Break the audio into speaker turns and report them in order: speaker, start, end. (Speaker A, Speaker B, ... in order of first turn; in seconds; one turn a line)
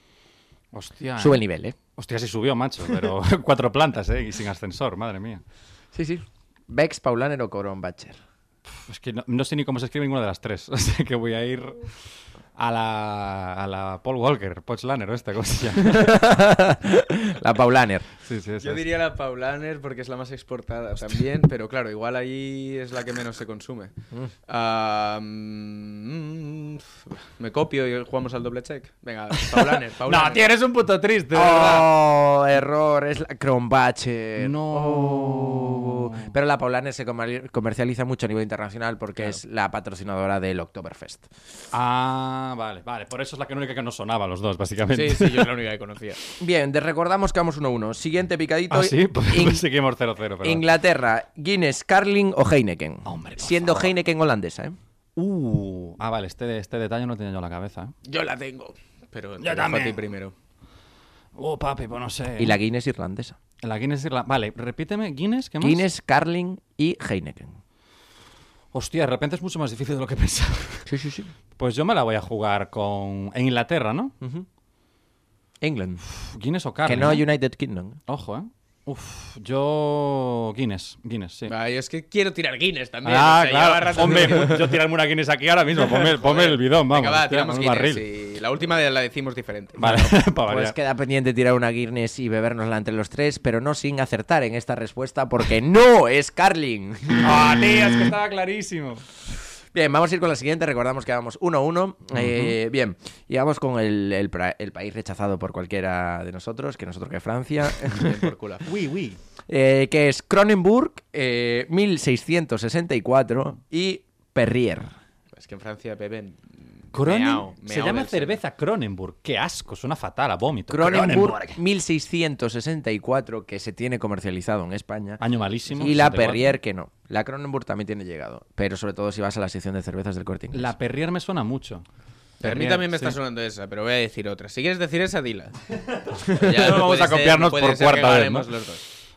Speaker A: 0.7-5.4
Speaker B: 1.1-1.8
Speaker B: 5.9-8.2
Speaker A: 8.8-11.8
Speaker A: 12.6-16.2
Speaker B: 15.8-18.1
Speaker A: 18.2-18.8
Speaker C: 18.6-23.9
Speaker C: 24.5-30.5
Speaker A: 29.4-31.9
Speaker B: 31.3-41.3
Speaker A: 34.4-36.3
Speaker A: 41.7-45.5
Speaker C: 44.9-46.2
Speaker B: 46.4-49.6
Speaker A: 48.7-50.6
Speaker B: 50.4-54.8
Speaker A: 53.0-53.9
Speaker A: 55.1-57.9
Speaker C: 58.0-60.3
Speaker A: 59.4-60.0
Speaker A: 61.3-62.5
Speaker B: 62.4-63.4
Speaker A: 63.6-65.8
Speaker B: 65.6-67.6
Speaker A: 68.7-70.9
Speaker B: 70.9-71.3
Speaker A: 71.6-74.1
Speaker B: 74.2-74.5
Speaker B: 75.6-76.0
Speaker A: 76.2-77.2
Speaker B: 76.8-78.0
Speaker A: 78.1-81.5
Speaker C: 81.5-84.8
Speaker A: 83.0-88.0
Speaker C: 85.8-90.1
Speaker A: 89.8-90.8
Speaker B: 90.5-97.3
Speaker A: 97.2-99.0
Speaker B: 99.7-108.3
Speaker A: 102.1-102.5
Speaker C: 107.9-108.7
Speaker A: 108.6-109.2
Speaker B: 109.5-114.9
Speaker C: 115.3-118.4
Speaker A: 116.9-121.6
Speaker B: 120.7-130.7
Speaker A: 125.2-126.5
Speaker A: 130.5-131.8
Speaker A: 132.4-133.2
Speaker C: 132.4-135.6
Speaker C: 136.3-138.8
Speaker A: 136.3-138.5